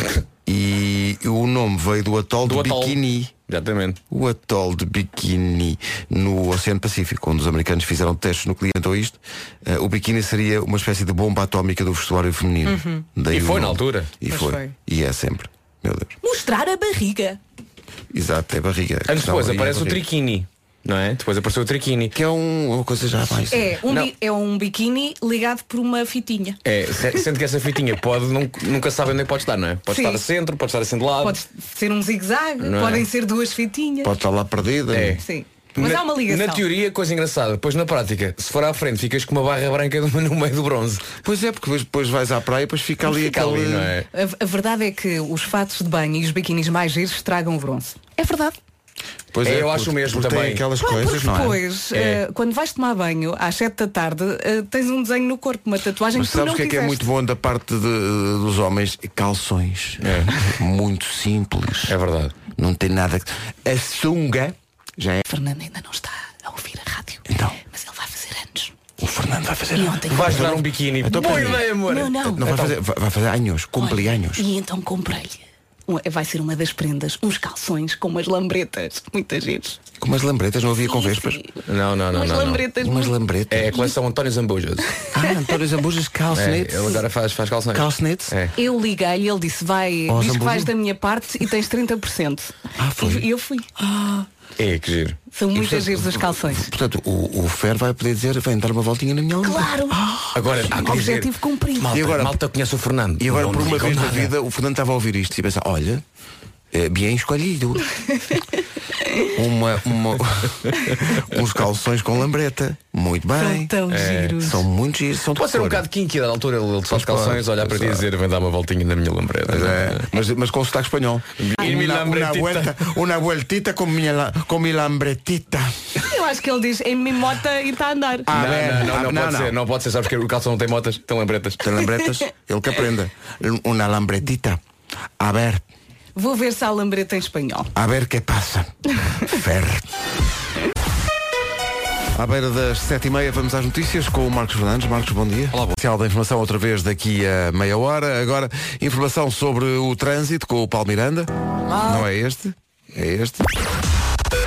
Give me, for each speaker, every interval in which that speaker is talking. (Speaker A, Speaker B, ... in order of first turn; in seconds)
Speaker A: 0.5-3.3, 4.1-16.1, 18.1-20.0, 22.1-23.8, 34.0-35.2, 41.2-43.9, 49.3-51.6, 56.1-62.0, 62.5-65.2, 67.3-67.6, 69.0-71.7, 72.2-74.5, 80.0-81.4, 82.7-83.9, 85.1-87.0, 87.7-88.3, 90.1-90.7, 92.8-93.3, 93.8-94.2, 95.5-101.0, 101.8-102.4, 103.2-106.0, 106.7-107.9, 109.3-113.8, 114.3-115.8, 116.9-118.0, 119.5-125.7, 128.3-129.6, 131.6-134.6, 135.2-135.6, 137.7-139.8, 142.1-153.5
Speaker B: 2.4-4.0, 13.3-14.1, 19.1-22.1, 26.6-31.4, 32.6-33.1, 34.9-35.2, 35.7-41.1, 43.2-44.1, 49.4-50.6, 51.9-52.2, 60.0-60.4, 61.9-62.3, 70.1-72.7, 81.7-82.6, 83.5-84.9, 86.3-88.5, 94.6-95.2, 100.3-104.3, 113.9-114.4, 115.3-120.0, 121.4-122.8, 128.3-131.6
Speaker C: 12.7-13.0, 14.3-14.7, 16.2-17.4, 23.5-26.6, 29.9-30.2, 31.2-34.1, 35.2-36.6, 44.1-48.6, 50.8-57.1, 65.2-68.7, 69.7-70.5, 71.2-72.5, 73.8-79.8, 80.8-81.6, 82.1-83.2, 88.5-93.7, 95.3-96.7, 99.4-100.0, 100.7-101.9, 113.3-114.6, 126.0-128.3, 136.2-137.7